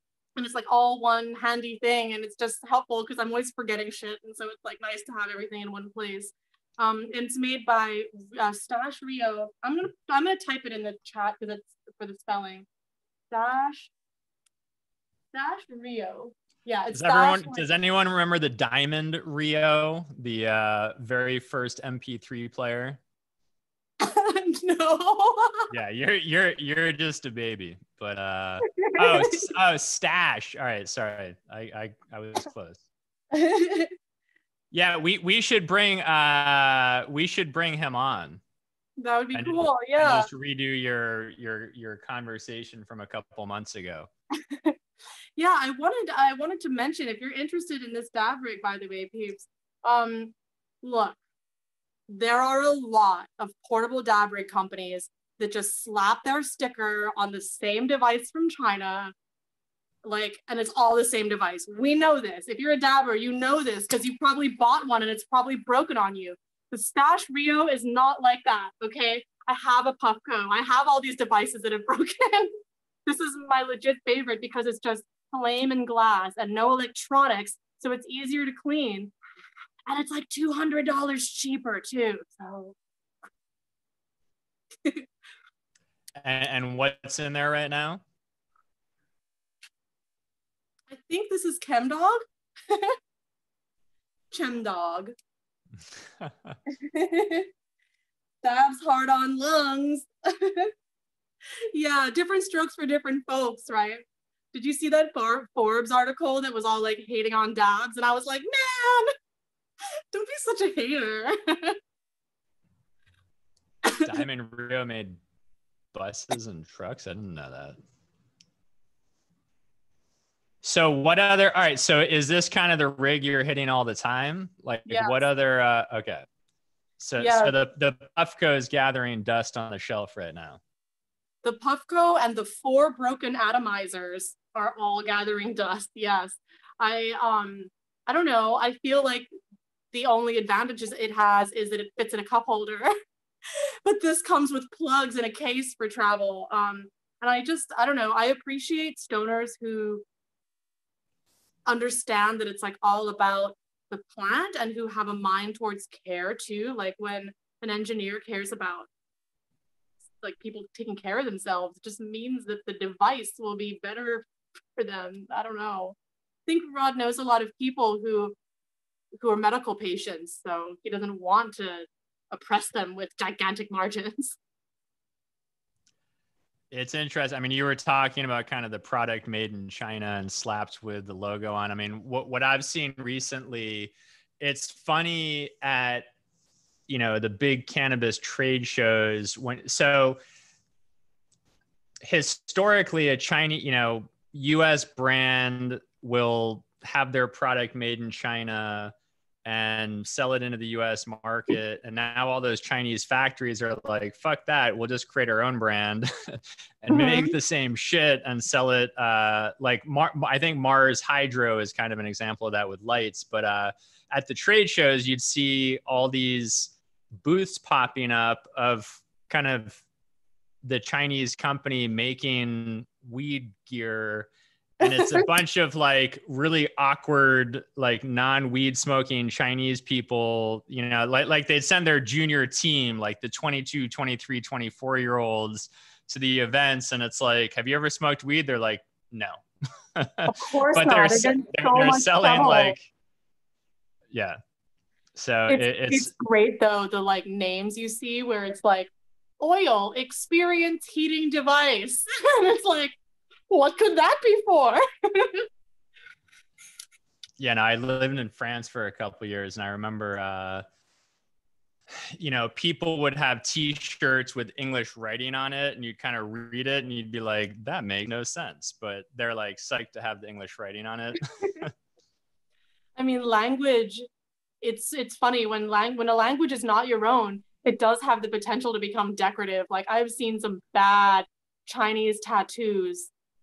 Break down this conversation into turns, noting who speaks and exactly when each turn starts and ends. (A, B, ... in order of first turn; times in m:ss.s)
0:00.4-0:12.6 A
0:13.3-0:13.9 A
0:15.3-0:17.6 A
0:16.9-0:23.0 B
0:24.0-0:25.7 A
0:25.7-0:32.8 B
0:28.7-0:29.5 A
0:33.3-0:33.9 A
0:34.7-0:38.4 B
0:39.0-0:40.3 A
0:39.3-0:44.1 B
0:44.5-0:44.7 A
0:45.4-0:51.2 A
0:52.1-0:59.1 A
1:00.0-1:12.5 A
1:13.0-1:19.1 A
1:19.9-1:22.8 A
1:26.2-1:28.0 B
1:30.9-1:32.9 A
1:34.3-1:35.1 A
1:36.2-1:36.6 B
1:36.7-1:37.5 A
1:38.4-1:40.7 A
1:41.7-1:49.1 A
1:50.1-1:51.8 A
1:54.0-1:55.2 B
1:55.9-1:57.8 B
2:00.6-2:06.2 B
2:04.9-2:05.2 A
2:07.0-2:10.6 B
2:07.2-2:07.5 A
2:11.4-2:19.3 A
2:19.9-2:22.9 A
2:23.8-2:30.0 A
2:31.7-2:38.9 A
2:40.2-2:44.2 A
2:44.8-2:46.0 A
2:46.5-2:48.4 A
2:49.2-2:54.4 A
2:56.7-3:06.1 B
3:06.9-3:10.2 B
3:12.0-3:18.9 B
3:19.4-3:39.8 B
3:26.9-3:27.3 A
3:40.6-3:59.4 B
3:44.8-3:45.3 A
4:00.0-4:02.9 B
4:00.3-4:02.8 A
4:04.1-4:04.4 B
4:05.1-4:06.1 B
4:05.5-4:13.0 A
4:13.5-4:15.4 A
4:17.4-4:20.6 B
4:22.0-4:31.7 B
4:33.0-4:34.0 A
4:34.6-4:43.1 A